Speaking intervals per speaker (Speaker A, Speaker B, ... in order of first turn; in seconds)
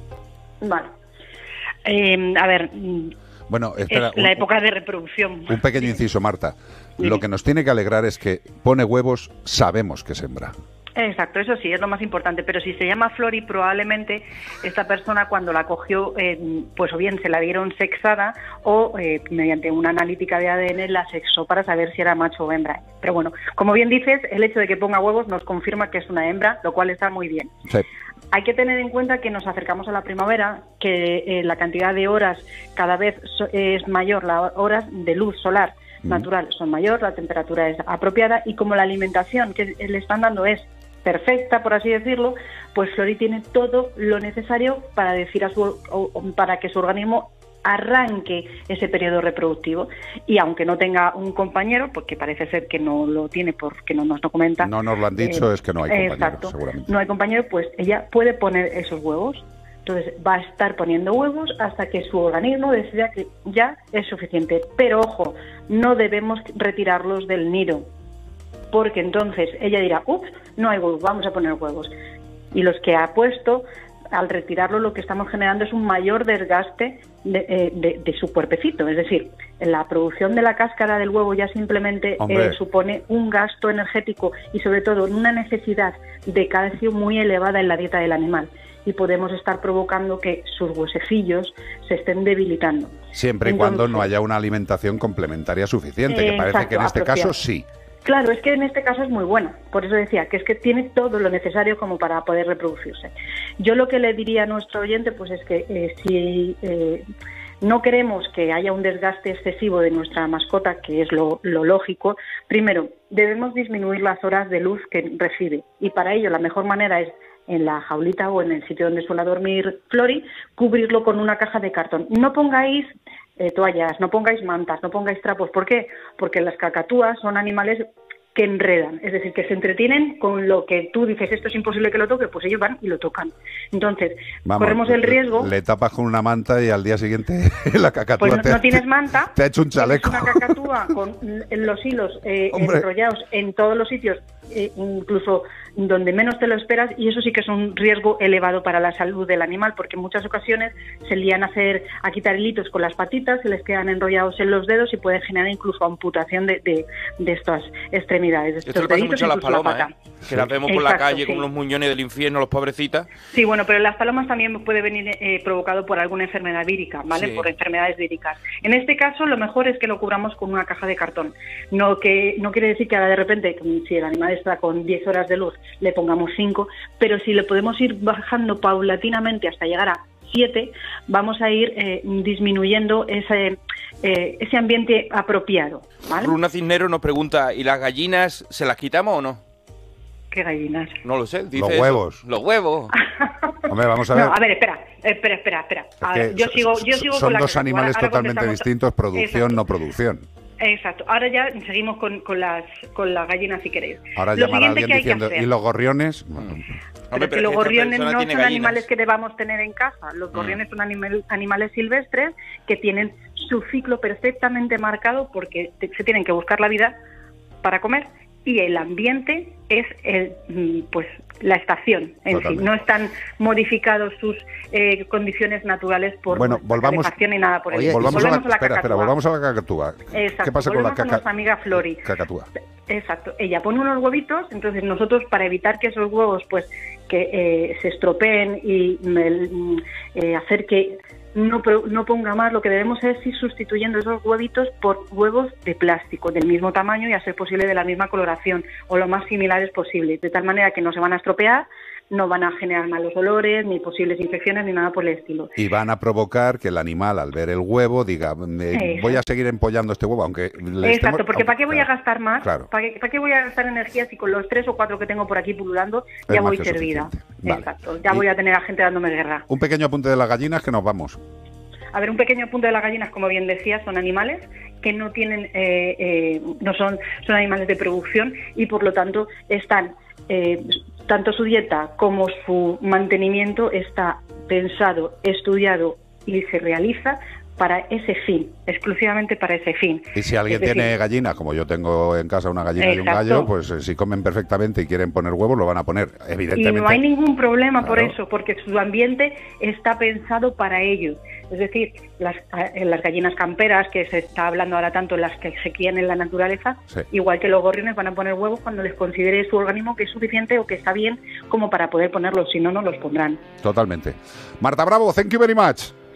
Speaker A: 0.6-0.9, 1.8-3.1, 3.9-5.8, 10.9-27.5, 28.3-67.9, 68.7-71.9, 72.5-94.1, 96.1-97.3, 98.0-107.1, 107.6-135.5, 138.2-159.9, 160.6-161.4, 163.3-186.3, 190.3-191.0, 193.2-199.6, 200.6-205.5, 207.1-216.9, 217.6-229.1, 230.1-232.1, 232.9-255.6, 258.7-259.2, 260.8-269.5, 271.9-290.9, 292.8-293.5, 296.6-313.4
Speaker B: 3.5-4.5, 5.5-10.5, 54.6-56.9, 82.2-82.6, 93.1-97.7, 134.4-140.6, 142.5-142.8, 191.5-192.2, 193.7-194.4, 196.0-200.2, 204.2-206.8, 222.3-222.7, 226.3-227.1, 227.7-232.5, 255.6-261.9, 262.4-262.7, 266.3-268.2, 269.5-271.2, 290.1-297.0, 297.8-298.1, 313.6-315.9
Speaker C: 158.7-163.1, 167.1-167.4, 186.1-189.4, 191.0-192.9, 207.1-208.8